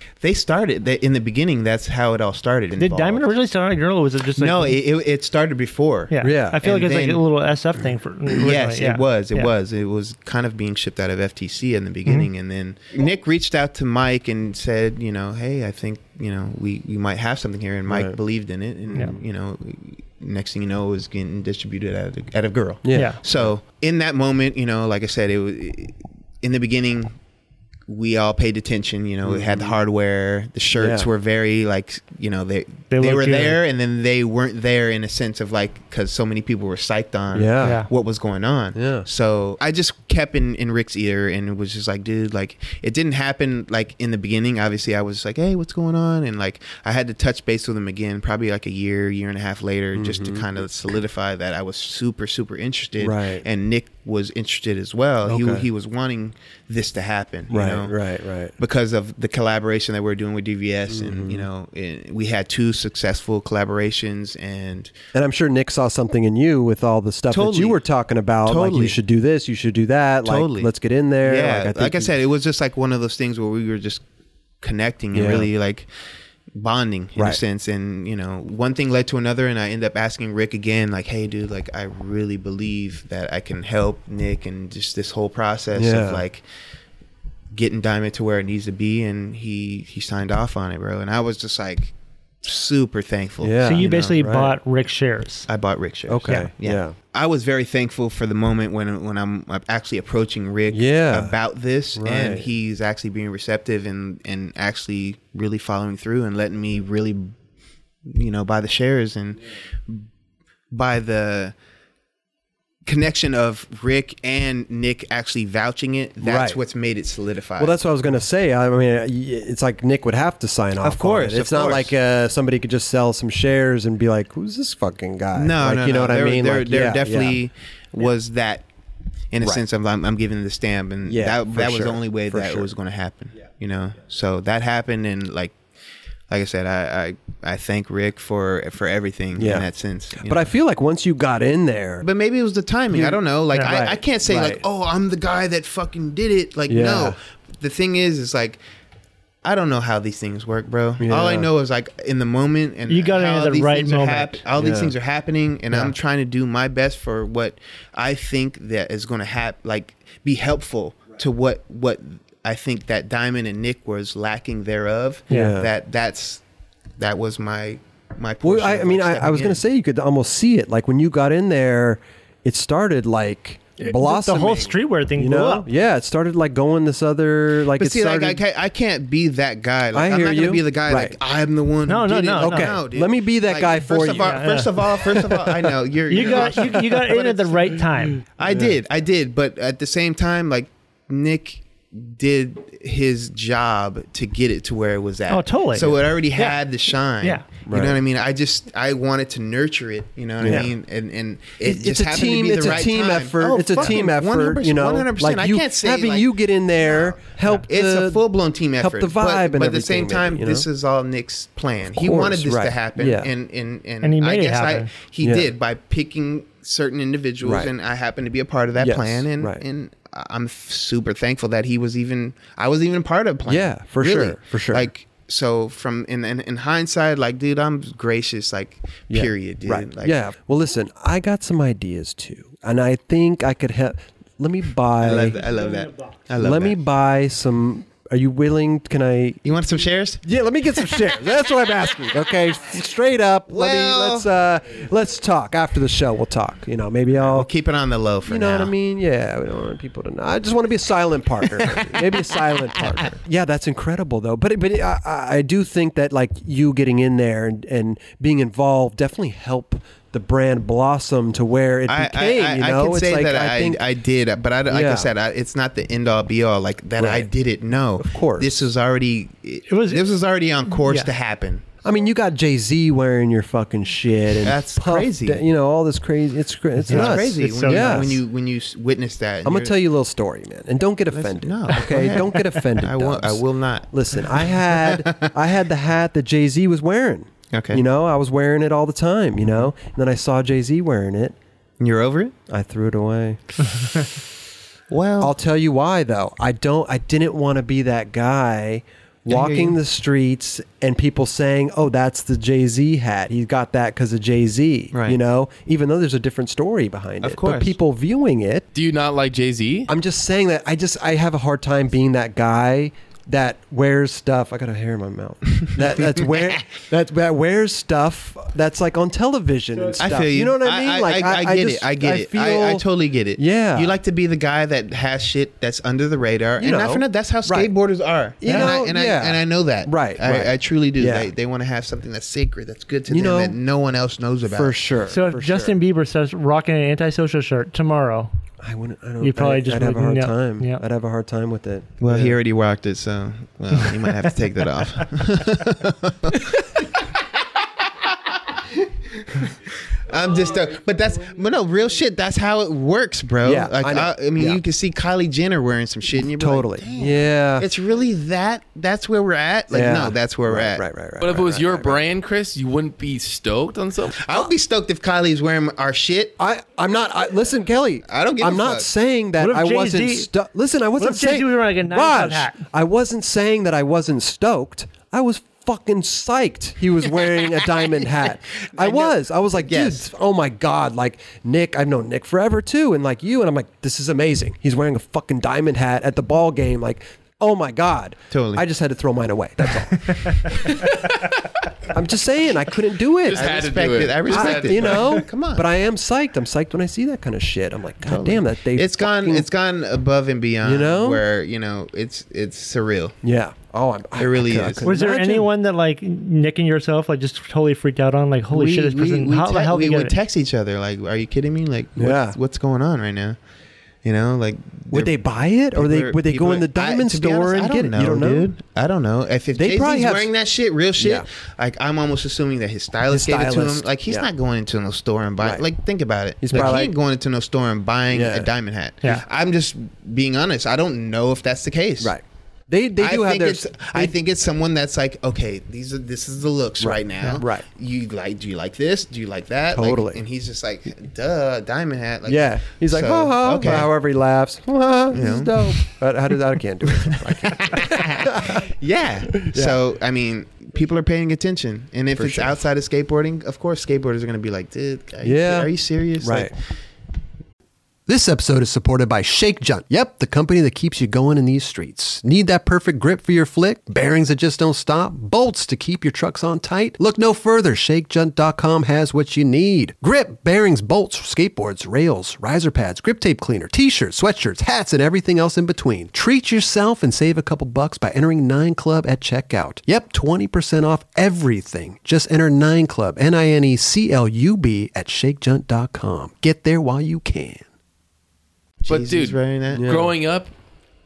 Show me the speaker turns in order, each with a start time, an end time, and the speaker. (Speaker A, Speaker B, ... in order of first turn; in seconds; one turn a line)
Speaker A: 0.2-3.3
Speaker B: 2.8-4.8
Speaker A: 4.3-7.2
Speaker B: 6.1-9.5
Speaker C: 6.2-6.6
Speaker A: 8.3-27.1
Speaker C: 17.9-18.2
Speaker C: 22.8-23.5
Speaker B: 22.9-23.2
Speaker A: 27.9-58.0
Speaker C: 29.2-29.7
Speaker C: 30.8-31.1
Speaker B: 32.9-33.6
Speaker C: 37.3-37.8
Speaker B: 37.6-37.9
Speaker C: 38.7-39.0
Speaker C: 49.9-50.5
Speaker C: 53.0-53.4
Speaker C: 55.2-55.6
Speaker C: 57.5-58.5
Speaker A: 58.6-64.9
Speaker C: 60.9-61.5
Speaker C: 65.1-72.1
Speaker A: 67.3-67.8
Speaker A: 68.4-69.0
Speaker A: 70.2-74.0
Speaker A: 74.6-75.9
Speaker C: 75.1-75.5
Speaker A: 76.5-86.4
Speaker C: 85.8-86.2
Speaker A: 87.5-94.2
Speaker C: 93.4-94.5
Speaker B: 93.6-95.5
Speaker A: 95.5-107.3
Speaker C: 96.1-96.9
Speaker C: 100.7-101.3
Speaker C: 102.0-102.5
Speaker A: 108.0-110.1
Speaker A: 110.7-111.5
Speaker A: 112.8-117.8
Speaker C: 116.2-116.6
Speaker C: 117.6-127.4
Speaker A: 120.8-121.9
Speaker A: 125.3-128.7
Speaker A: 129.3-135.6
Speaker C: 131.1-132.7
Speaker A: 136.3-140.5
Speaker C: 139.4-142.0
Speaker A: 142.0-148.6
Speaker C: 142.9-144.6
Speaker C: 146.7-147.2
Speaker A: 149.4-166.4
Speaker C: 151.0-151.5
Speaker B: 152.9-154.4
Speaker C: 154.6-154.9
Speaker C: 165.3-165.7
Speaker A: 167.0-169.6
Speaker C: 168.4-178.4
Speaker B: 173.8-175.7
Speaker A: 177.7-230.2
Speaker C: 179.9-181.2
Speaker B: 181.9-182.8
Speaker C: 182.4-186.6
Speaker B: 184.2-184.7
Speaker B: 186.1-188.2
Speaker C: 188.5-188.8
Speaker B: 195.3-196.6
Speaker B: 197.2-197.5
Speaker C: 197.6-198.0
Speaker C: 200.4-200.7
Speaker C: 201.6-208.2
Speaker C: 208.8-210.7
Speaker C: 211.9-213.3
Speaker B: 214.0-214.9
Speaker C: 215.2-215.5
Speaker C: 217.4-217.7
Speaker C: 218.8-219.6
Speaker C: 223.5-224.9
Speaker C: 229.1-235.4
Speaker A: 235.0-236.8
Speaker B: 235.5-235.9
Speaker C: 236.4-239.4
Speaker A: 239.4-240.2
Speaker C: 240.2-247.5
Speaker A: 243.5-244.3
Speaker A: 247.2-248.7
Speaker C: 248.2-263.8
Speaker A: 251.8-252.2
Speaker A: 261.9-271.6
Speaker C: 264.7-265.1
Speaker C: 267.0-267.3
Speaker C: 268.0-268.6
Speaker B: 269.7-270.1
Speaker B: 270.8-271.1
Speaker C: 271.8-278.2
Speaker A: 274.4-275.4
Speaker B: 276.9-278.1
Speaker A: 276.9-279.8
Speaker C: 279.4-291.4
Speaker A: 281.1-285.3
Speaker A: 287.5-287.8
Speaker A: 291.8-292.3
Speaker C: 292.5-293.4
Speaker A: 294.9-295.3
Speaker C: 295.2-308.6
Speaker A: 299.3-299.8
Speaker A: 304.9-305.2
Speaker A: 307.2-307.8
Speaker D: 308.7-309.9
Speaker C: 309.9-322.8
Speaker A: 315.8-316.6
Speaker A: 320.0-334.8
Speaker C: 323.4-323.9
Speaker C: 326.6-327.7
Speaker C: 328.4-331.3
Speaker B: 328.5-328.8
Speaker C: 333.1-333.6
Speaker C: 334.5-335.8
Speaker B: 335.1-338.3
Speaker C: 338.6-342.4
Speaker B: 339.2-340.8
Speaker A: 342.0-360.8
Speaker C: 353.4-354.6
Speaker C: 356.4-357.7
Speaker C: 359.7-362.0
Speaker D: 361.2-364.2
Speaker A: 364.1-366.4
Speaker C: 366.4-390.9
Speaker A: 368.1-368.9
Speaker B: 369.4-370.3
Speaker B: 371.0-372.6
Speaker A: 377.7-380.1
Speaker A: 388.3-388.7
Speaker C: 391.9-393.5
Speaker D: 393.2-395.2
Speaker A: 393.3-395.6
Speaker C: 394.3-399.5
Speaker A: 398.0-403.1
Speaker C: 400.6-401.2
Speaker C: 403.2-405.5
Speaker A: 404.1-404.9
Speaker B: 404.8-410.1
Speaker A: 408.5-413.4
Speaker C: 412.0-412.4
Speaker A: 414.0-415.2
Speaker C: 414.9-418.5
Speaker A: 415.7-432.1
Speaker C: 419.5-420.3
Speaker C: 421.0-421.2
Speaker C: 423.1-424.3
Speaker C: 426.4-426.9
Speaker C: 428.1-428.5
Speaker C: 432.0-434.1
Speaker A: 433.0-443.9
Speaker C: 436.8-437.6
Speaker C: 439.7-440.2
Speaker C: 442.3-448.6
Speaker A: 445.1-445.9
Speaker A: 446.9-456.6
Speaker C: 449.4-449.8
Speaker C: 452.1-452.6
Speaker C: 455.2-456.5
Speaker E: 458.1-487.7
Speaker A: 488.8-489.9
Speaker D: 488.9-490.5
Speaker C: 489.7-490.1